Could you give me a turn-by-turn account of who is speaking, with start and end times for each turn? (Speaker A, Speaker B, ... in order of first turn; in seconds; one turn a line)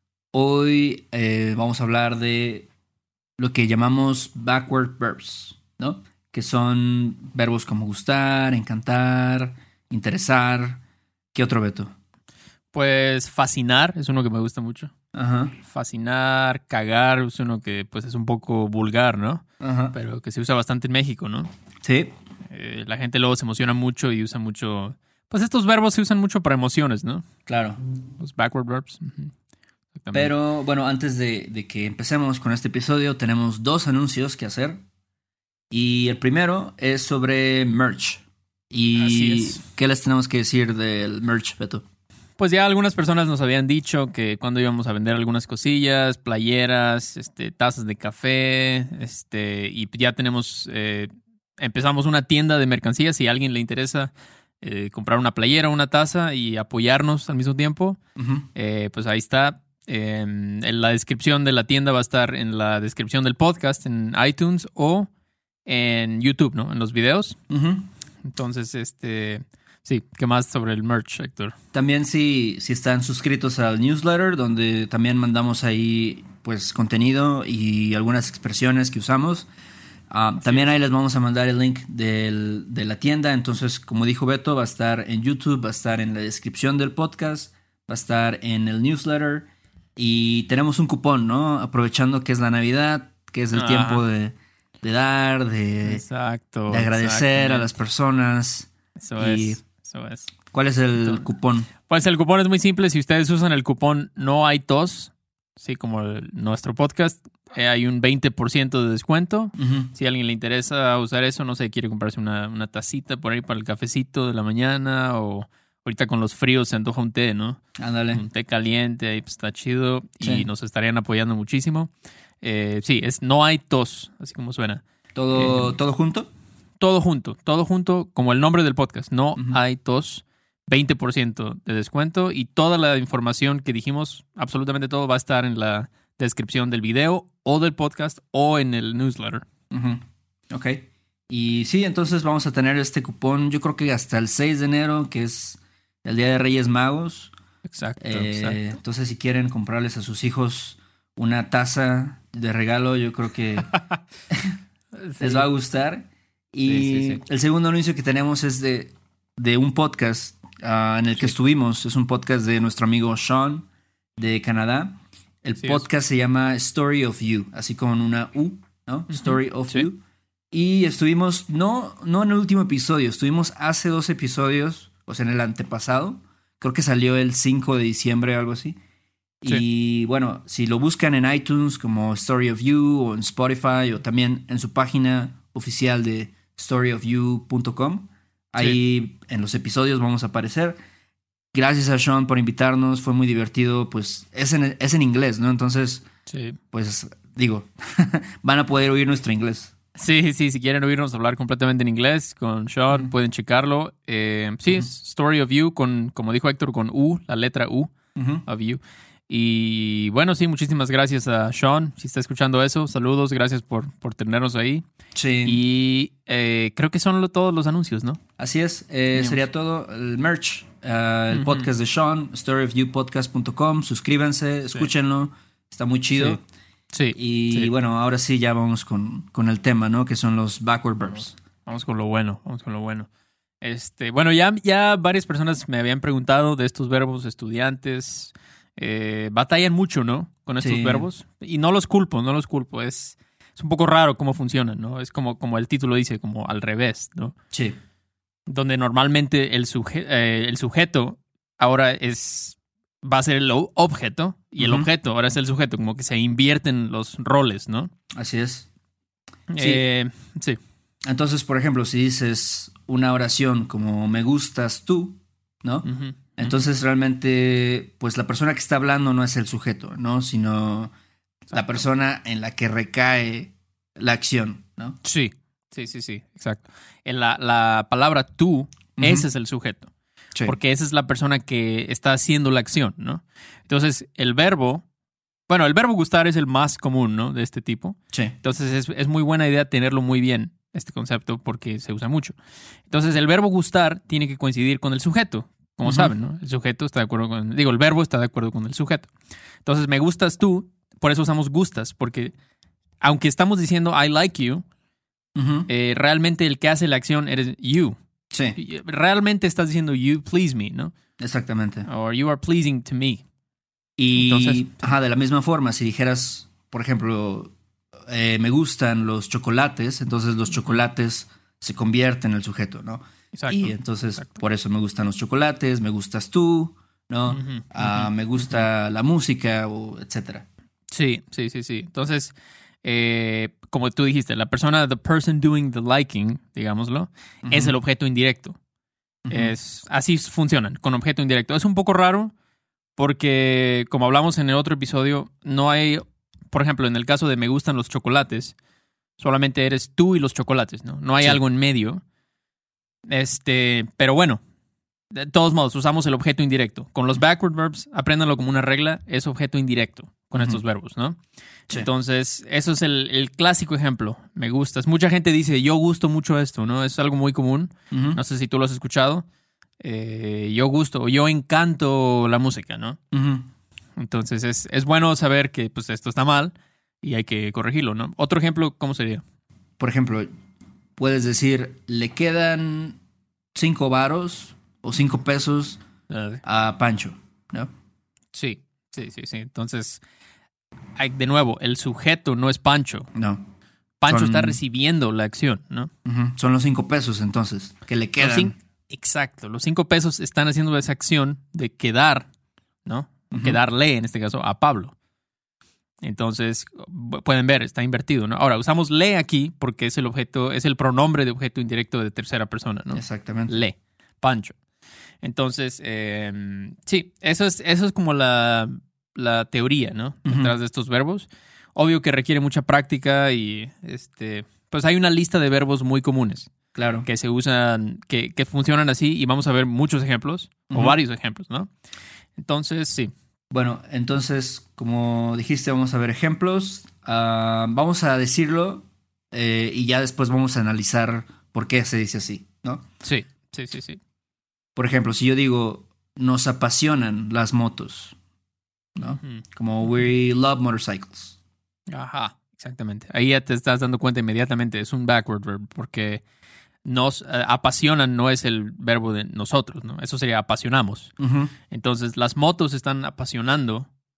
Speaker A: 0.3-2.7
Speaker A: 3.4-10.8
Speaker A: 11.3-11.9
Speaker B: 12.7-14.9
Speaker A: 15.1-15.6
Speaker B: 15.6-21.5
Speaker A: 19.6-19.9
Speaker A: 21.8-22.1
Speaker B: 22.5-27.3
Speaker A: 27.4-27.8
Speaker B: 28.2-29.3
Speaker B: 29.9-30.3
Speaker A: 30.1-34.8
Speaker A: 35.7-41.8
Speaker B: 39.0-39.6
Speaker B: 42.4-58.0
Speaker A: 58.1-58.5
Speaker B: 58.5-65.1
Speaker B: 65.7-67.4
Speaker A: 67.5-67.9
Speaker B: 68.2-71.5
Speaker A: 71.7-79.5
Speaker A: 80.1-96.0
Speaker B: 93.5-94.0
Speaker B: 95.8-97.7
Speaker A: 96.7-99.6
Speaker B: 99.0-100.3
Speaker A: 100.5-101.7
Speaker B: 101.0-121.9
Speaker A: 109.6-109.9
Speaker A: 117.8-118.2
Speaker A: 120.2-120.5
Speaker B: 122.4-124.8
Speaker A: 125.1-126.3
Speaker B: 125.3-125.7
Speaker B: 126.8-139.4
Speaker A: 139.7-147.3
Speaker B: 147.7-148.6
Speaker A: 148.0-153.7
Speaker B: 155.0-155.4
Speaker A: 155.2-170.0
Speaker B: 156.7-157.2
Speaker B: 169.1-169.9
Speaker A: 170.5-178.8
Speaker A: 179.4-190.8
Speaker A: 191.5-196.0
Speaker B: 196.3-196.6
Speaker A: 196.7-199.7
Speaker B: 199.9-207.9
Speaker A: 208.1-208.4
Speaker B: 208.4-214.8
Speaker A: 215.1-215.6
Speaker B: 215.4-218.2
Speaker A: 218.4-226.4
Speaker B: 219.1-219.4
Speaker B: 221.3-221.7
Speaker B: 226.1-226.4
Speaker B: 226.9-227.7
Speaker A: 227.1-231.3
Speaker B: 231.7-233.1
Speaker B: 233.6-247.3
Speaker A: 240.6-241.1
Speaker A: 247.5-247.8
Speaker B: 248.5-257.9
Speaker A: 254.6-254.9
Speaker A: 258.1-258.7
Speaker B: 259.5-260.6
Speaker A: 259.6-259.8
Speaker A: 261.0-265.9
Speaker B: 265.8-266.5
Speaker A: 266.4-270.9
Speaker B: 271.5-271.8
Speaker A: 271.5-274.9
Speaker B: 275.0-279.9
Speaker A: 279.0-279.2
Speaker B: 280.4-284.8
Speaker B: 285.5-292.4
Speaker B: 292.9-299.1
Speaker A: 295.8-296.1
Speaker B: 299.6-302.3
Speaker B: 303.0-304.6
Speaker A: 305.4-305.7
Speaker B: 305.7-308.0
Speaker A: 308.3-308.6
Speaker B: 308.6-310.9
Speaker A: 311.2-311.9
Speaker B: 311.9-313.2
Speaker A: 314.0-317.5
Speaker B: 314.1-314.9
Speaker A: 318.1-330.4
Speaker B: 323.3-324.4
Speaker B: 327.3-328.6
Speaker B: 330.9-338.6
Speaker A: 337.4-337.7
Speaker A: 339.2-339.5
Speaker B: 339.3-342.3
Speaker B: 343.0-348.5
Speaker B: 349.2-352.0
Speaker B: 353.1-354.4
Speaker B: 355.1-361.2
Speaker B: 361.7-369.2
Speaker A: 367.9-368.2
Speaker B: 369.8-373.0
Speaker A: 373.1-373.5
Speaker B: 374.0-379.2
Speaker A: 379.8-380.3
Speaker A: 381.0-383.0
Speaker A: 383.5-385.8
Speaker B: 386.1-386.4
Speaker A: 386.4-387.7
Speaker B: 388.3-390.0
Speaker B: 390.9-393.1
Speaker A: 393.1-393.4
Speaker B: 394.0-395.9
Speaker A: 394.1-394.6
Speaker A: 396.1-398.5
Speaker B: 398.2-402.3
Speaker B: 402.9-404.9
Speaker A: 403.3-403.6
Speaker B: 406.0-414.5
Speaker A: 412.9-413.6
Speaker B: 415.2-426.5
Speaker A: 420.2-420.5
Speaker A: 426.7-427.0
Speaker B: 427.0-431.7
Speaker A: 430.7-430.9
Speaker B: 432.4-433.1
Speaker A: 433.5-442.8
Speaker B: 443.0-444.0
Speaker A: 444.8-448.1
Speaker A: 448.9-451.4
Speaker B: 451.9-456.2
Speaker B: 456.8-461.1
Speaker A: 461.2-461.5
Speaker B: 461.7-463.9